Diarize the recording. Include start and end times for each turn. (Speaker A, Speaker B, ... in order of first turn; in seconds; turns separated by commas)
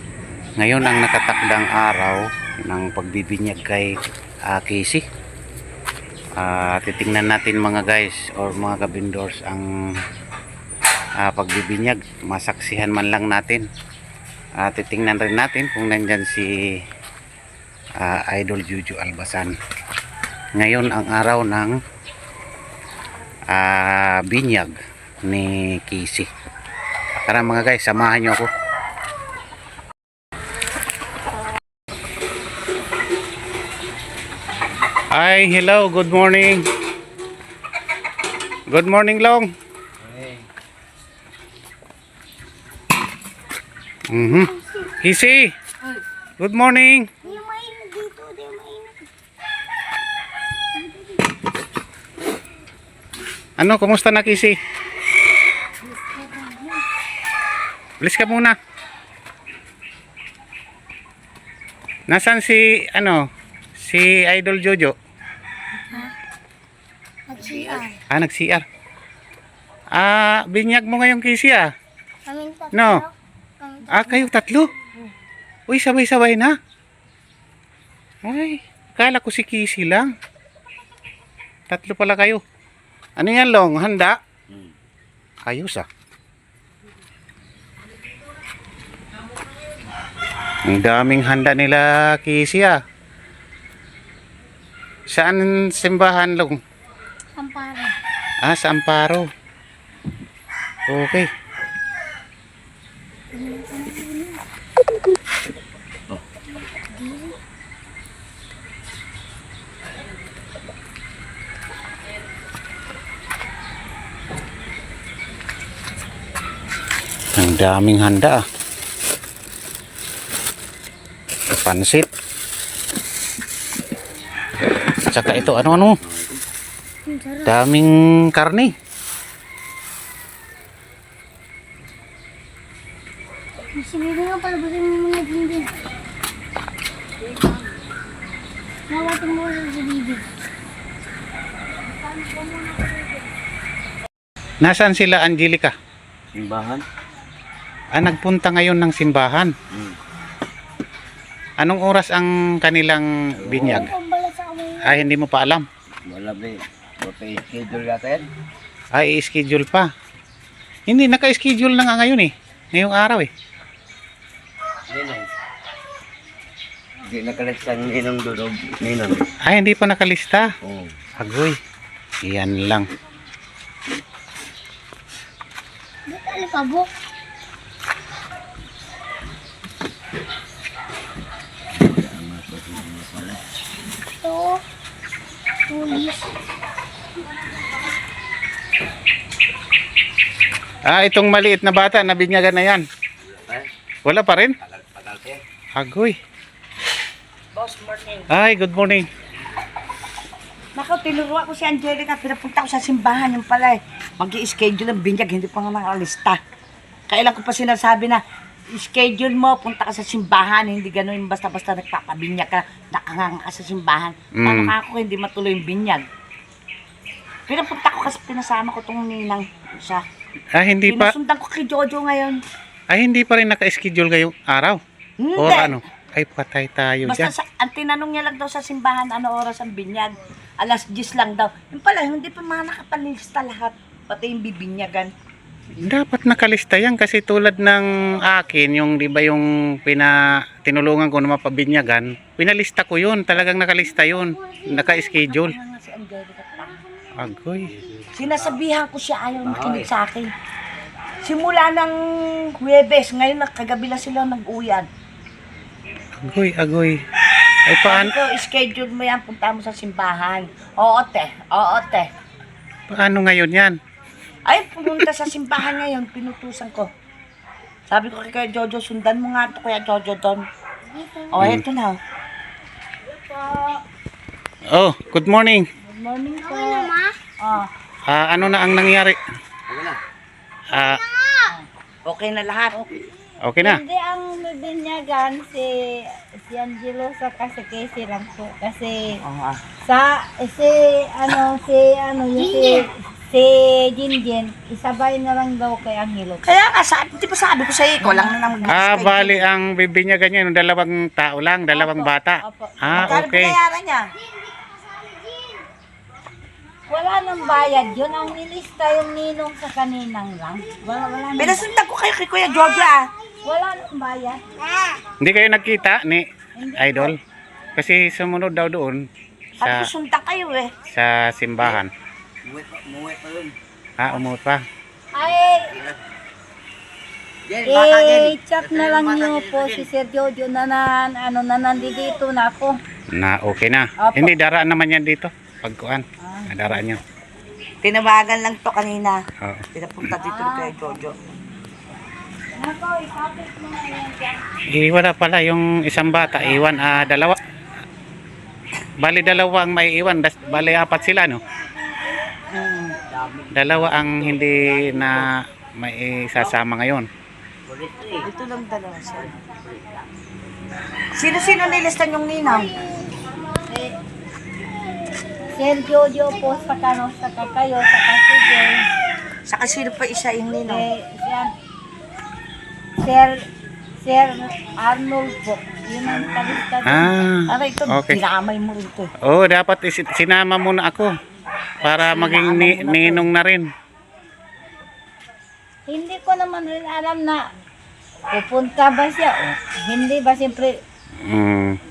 Speaker A: 0.6-4.0, Speaker A: 4.5-5.0, Speaker A: 6.4-9.7, Speaker A: 11.2-13.7, Speaker A: 14.6-16.5, Speaker A: 18.0-19.5, Speaker A: 20.6-21.8, Speaker A: 23.5-26.3, Speaker A: 27.2-28.5, Speaker A: 35.1-36.6, Speaker A: 38.7-39.5, Speaker B: 40.0-40.4, Speaker A: 44.1-44.5, Speaker C: 44.3-44.9, Speaker A: 45.0-45.5, Speaker A: 46.4-47.1, Speaker C: 47.2-49.1, Speaker C: 50.7-51.3, Speaker A: 53.6-54.5, Speaker A: 58.0-58.5, Speaker A: 62.1-65.0, Speaker C: 67.3-68.0, Speaker B: 67.4-67.8, Speaker A: 68.1-68.6, Speaker A: 69.9-71.7, Speaker C: 72.3-74.2, Speaker A: 72.7-73.0, Speaker A: 73.9-74.7, Speaker A: 75.7-76.5, Speaker A: 78.2-80.1, Speaker A: 81.7-82.4, Speaker A: 83.2-84.2, Speaker A: 85.5-85.9, Speaker A: 90.7-92.8, Speaker A: 95.1-96.6, Speaker C: 97.4-97.9, Speaker A: 98.4-99.3, Speaker A: 100.9-101.3, Speaker C: 103.3-104.4, Speaker C: 106.9-107.3, Speaker A: 117.4-118.4, Speaker A: 121.5-122.1, Speaker A: 125.0-126.0, Speaker B: 125.2-126.4, Speaker C: 127.0-127.5, Speaker A: 127.5-128.7, Speaker C: 133.7-135.7, Speaker D: 137.3-137.6, Speaker C: 138.9-140.2, Speaker C: 142.2-143.0, Speaker A: 144.6-145.7, Speaker B: 146.3-146.8, Speaker A: 148.0-149.5, Speaker B: 149.7-150.0, Speaker A: 151.6-153.9, Speaker B: 153.4-153.9, Speaker C: 153.6-155.0, Speaker A: 154.8-155.7, Speaker B: 156.1-158.2, Speaker A: 158.9-159.9, Speaker A: 160.9-163.3, Speaker B: 164.9-165.3, Speaker B: 167.1-169.2, Speaker A: 169.5-170.5, Speaker B: 170.6-170.9, Speaker A: 171.2-171.6, Speaker A: 172.2-172.9, Speaker C: 176.1-176.9, Speaker B: 181.8-183.4, Speaker C: 184.2-184.6, Speaker C: 185.7-186.3, Speaker A: 190.9-192.8, Speaker A: 194.1-194.5, Speaker B: 194.6-195.4, Speaker A: 195.8-196.2, Speaker E: 197.5-198.3, Speaker A: 198.3-199.1, Speaker E: 200.8-206.4, Speaker E: 207.1-208.2, Speaker E: 208.7-216.1, Speaker A: 214.4-214.7, Speaker E: 217.5-220.1, Speaker A: 220.5-221.2, Speaker E: 220.9-222.4, Speaker A: 222.9-224.8, Speaker E: 225.2-225.8, Speaker A: 225.4-227.3, Speaker E: 227.1-235.1, Speaker A: 235.8-245.6, Speaker E: 244.8-246.8, Speaker A: 247.2-247.8, Speaker B: 247.9-248.6, Speaker E: 248.1-250.3, Speaker B: 249.4-249.9, Speaker E: 251.2-252.0, Speaker E: 252.6-254.9, Speaker A: 256.2-257.0, Speaker A: 257.7-258.1, Speaker E: 257.9-262.1, Speaker A: 262.9-263.8, Speaker E: 264.4-266.9, Speaker E: 267.9-270.4, Speaker C: 270.9-271.2, Speaker E: 271.3-272.0, Speaker A: 271.4-271.6, Speaker D: 273.1-273.8, Speaker A: 274.7-275.7, Speaker D: 275.8-277.7, Speaker C: 276.4-277.1, Speaker A: 278.1-279.2, Speaker B: 279.7-280.0, Speaker A: 280.7-281.0, Speaker C: 280.8-281.5, Speaker E: 282.1-282.8, Speaker A: 283.4-283.8, Speaker D: 283.6-289.2, Speaker E: 289.2-289.6, Speaker D: 289.9-296.4, Speaker E: 296.5-299.4, Speaker D: 298.0-298.7, Speaker A: 298.7-303.6, Speaker D: 301.7-303.1, Speaker E: 303.0-304.1, Speaker C: 304.2-305.6, Speaker D: 306.9-311.7, Speaker E: 311.4-313.1, Speaker D: 313.4-314.4, Speaker C: 314.6-315.0, Speaker A: 315.2-316.2, Speaker D: 316.6-317.1, Speaker A: 316.8-317.2, Speaker A: 317.8-319.0, Speaker E: 319.6-320.7, Speaker A: 319.6-319.9, Speaker A: 320.9-321.9, Speaker B: 322.4-323.5, Speaker A: 324.0-324.6, Speaker D: 325.1-325.7, Speaker B: 325.7-326.0, Speaker B: 327.5-329.9, Speaker D: 327.7-332.8, Speaker A: 333.1-337.0, Speaker D: 334.0-334.3, Speaker D: 336.2-336.5, Speaker E: 337.8-339.2, Speaker A: 339.4-339.7, Speaker E: 339.7-341.1, Speaker D: 340.2-340.8, Speaker D: 342.5-344.4, Speaker A: 344.7-347.4, Speaker A: 349.0-351.4, Speaker B: 352.9-355.3, Speaker A: 353.5-357.1, Speaker B: 357.7-358.3, Speaker E: 358.2-359.3, Speaker B: 359.1-360.0, Speaker E: 361.1-362.7, Speaker C: 362.7-363.6, Speaker D: 363.7-363.9, Speaker D: 365.5-368.8, Speaker E: 369.5-370.9, Speaker D: 370.7-371.5, Speaker D: 373.0-373.4, Speaker D: 374.0-377.1, Speaker A: 376.9-378.2, Speaker E: 377.5-379.1, Speaker A: 379.2-381.1, Speaker A: 381.8-383.7, Speaker E: 381.9-383.2, Speaker D: 385.9-387.4, Speaker D: 388.3-390.8, Speaker A: 391.2-391.8